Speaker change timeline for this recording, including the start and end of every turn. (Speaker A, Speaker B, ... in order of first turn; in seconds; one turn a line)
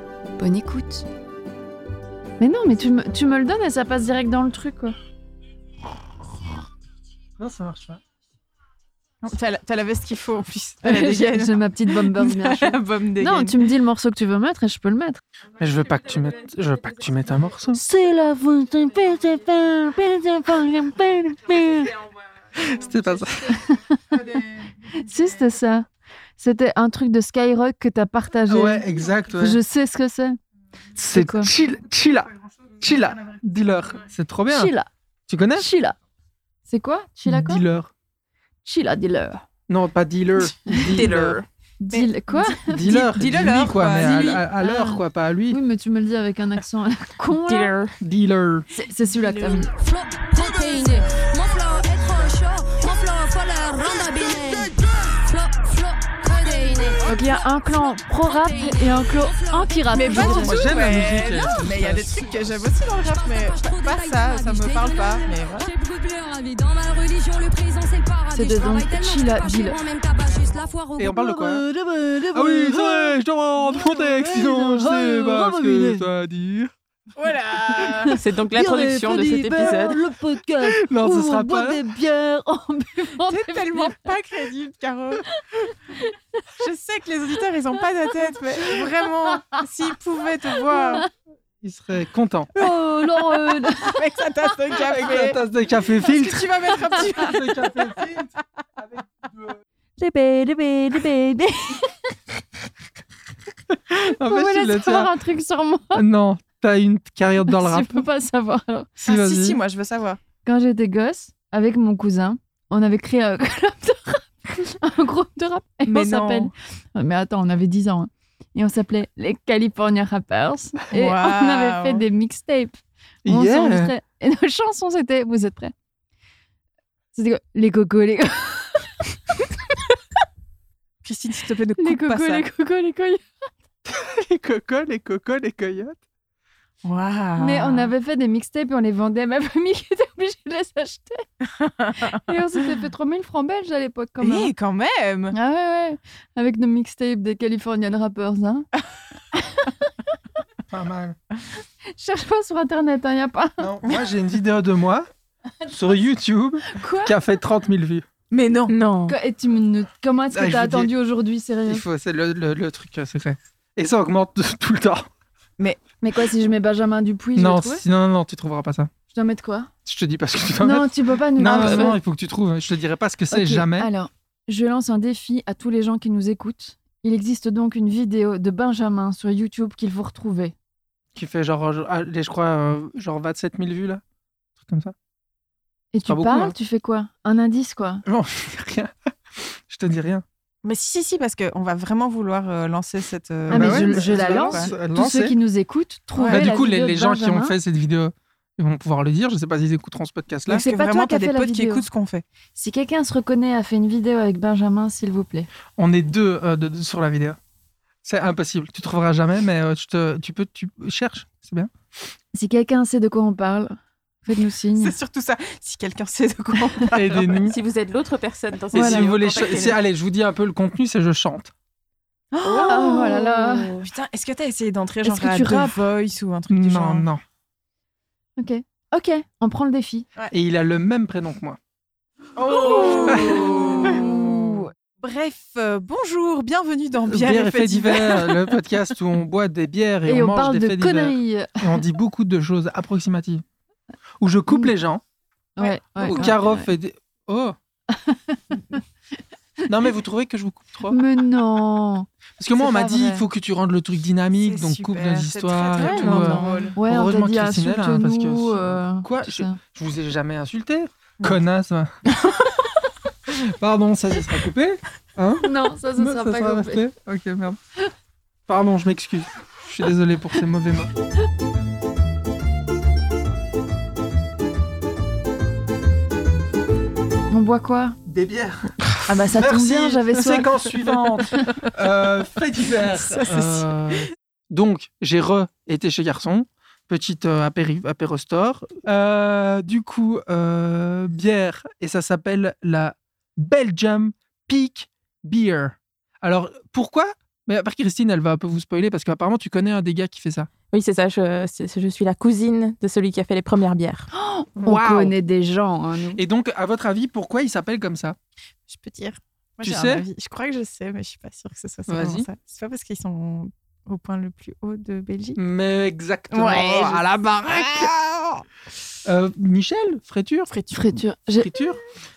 Speaker A: 0.4-1.1
Speaker A: 2.4-5.0
Speaker B: 7.4-8.0
Speaker C: 9.2-13.7
Speaker A: 10.8-15.2
Speaker B: 15.6-17.8
Speaker A: 17.7-21.9
Speaker B: 22.6-23.6
Speaker A: 23.6-24.2
Speaker A: 24.8-28.9
Speaker B: 28.5-29.6
Speaker A: 29.4-30.4
Speaker B: 31.0-34.7
Speaker A: 31.0-31.5
Speaker A: 34.5-34.9
Speaker B: 35.3-35.7
Speaker A: 35.6-36.0
Speaker A: 36.7-37.6
Speaker B: 37.3-37.9
Speaker A: 38.6-39.4
Speaker B: 39.7-41.4
Speaker D: 40.9-41.3
Speaker C: 41.0-44.5
Speaker A: 41.8-42.9
Speaker B: 42.7-45.6
Speaker A: 44.6-47.8
Speaker D: 47.3-48.0
Speaker B: 48.0-48.7
Speaker A: 48.7-49.7
Speaker E: 49.4-60.8
Speaker A: 57.1-60.6
Speaker C: 59.9-65.7
Speaker B: 60.3-62.6
Speaker E: 62.9-71.0
Speaker A: 68.3-69.8
Speaker A: 71.0-76.1
Speaker B: 71.0-71.7
Speaker B: 72.3-76.7
Speaker C: 77.2-78.2
Speaker A: 77.9-84.0
Speaker D: 78.1-80.0
Speaker B: 80.6-81.9
Speaker C: 83.2-85.2
Speaker A: 85.3-86.1
Speaker C: 86.6-91.0
Speaker A: 90.7-91.1
Speaker B: 91.6-92.5
Speaker A: 92.5-94.0
Speaker C: 93.8-95.4
Speaker B: 94.8-99.6
Speaker C: 96.0-98.0
Speaker A: 100.0-102.0
Speaker B: 103.7-105.1
Speaker A: 104.2-106.0
Speaker B: 105.9-108.1
Speaker A: 107.5-109.0
Speaker C: 109.0-110.2
Speaker B: 109.0-109.6
Speaker A: 110.5-125.7
Speaker C: 115.9-116.5
Speaker C: 120.9-122.1
Speaker B: 123.2-123.9
Speaker A: 127.1-128.9
Speaker C: 131.0-132.4
Speaker A: 131.8-133.2
Speaker B: 133.9-136.0
Speaker C: 136.8-137.9
Speaker A: 137.4-141.2
Speaker C: 141.6-142.2
Speaker A: 142.1-144.5
Speaker C: 144.2-145.4
Speaker A: 145.3-148.7
Speaker A: 149.3-150.0
Speaker B: 150.7-151.2
Speaker A: 151.9-153.7
Speaker B: 153.6-155.1
Speaker B: 155.7-158.1
Speaker A: 156.7-157.2
Speaker C: 158.3-158.8
Speaker D: 158.7-159.2
Speaker A: 159.1-161.8
Speaker B: 160.3-160.9
Speaker B: 161.7-165.1
Speaker C: 165.6-165.9
Speaker A: 166.0-167.8
Speaker B: 167.4-168.9
Speaker A: 169.1-169.7
Speaker B: 169.9-173.9
Speaker A: 170.6-172.0
Speaker A: 173.3-180.6
Speaker B: 181.2-184.0
Speaker B: 184.6-184.9
Speaker A: 185.9-188.0
Speaker B: 186.1-186.5
Speaker B: 188.1-190.2
Speaker C: 190.6-194.7
Speaker B: 193.5-195.3
Speaker A: 193.5-197.6
Speaker C: 196.1-196.4
Speaker B: 196.3-200.7
Speaker C: 200.5-202.2
Speaker A: 200.5-201.8
Speaker A: 202.6-205.5
Speaker B: 205.8-207.4
Speaker B: 208.0-211.7
Speaker A: 212.3-214.9
Speaker C: 214.8-217.4
Speaker B: 216.9-217.6
Speaker D: 217.4-219.8
Speaker B: 218.7-221.5
Speaker A: 218.7-219.1
Speaker C: 222.3-227.1
Speaker D: 222.4-222.9
Speaker A: 222.6-223.8
Speaker A: 225.0-225.8
Speaker B: 226.5-227.2
Speaker A: 228.4-230.1
Speaker B: 230.3-231.6
Speaker C: 232.4-238.6
Speaker A: 232.6-234.0
Speaker B: 233.1-234.1
Speaker B: 237.1-243.4
Speaker A: 240.1-241.8
Speaker B: 244.2-245.0
Speaker A: 245.6-246.7
Speaker C: 245.6-246.4
Speaker B: 246.0-247.6
Speaker A: 247.9-248.6
Speaker B: 249.7-251.0
Speaker A: 250.9-253.2
Speaker B: 252.4-261.9
Speaker C: 254.3-256.8
Speaker D: 255.8-256.6
Speaker A: 256.8-259.6
Speaker B: 263.3-267.6
Speaker A: 265.4-266.8
Speaker B: 268.5-270.9
Speaker A: 277.3-278.0
Speaker B: 278.1-278.8
Speaker A: 279.1-280.5
Speaker B: 279.3-300.5
Speaker C: 282.8-284.0
Speaker D: 300.7-304.1
Speaker A: 304.1-306.2
Speaker B: 304.6-305.1
Speaker B: 306.1-308.2
Speaker C: 308.7-315.4
Speaker B: 309.6-310.0
Speaker B: 311.9-312.3
Speaker B: 315.4-318.4
Speaker C: 316.3-317.0
Speaker C: 317.6-317.9
Speaker B: 319.0-320.5
Speaker C: 320.5-320.9
Speaker A: 320.7-321.6
Speaker B: 321.4-321.8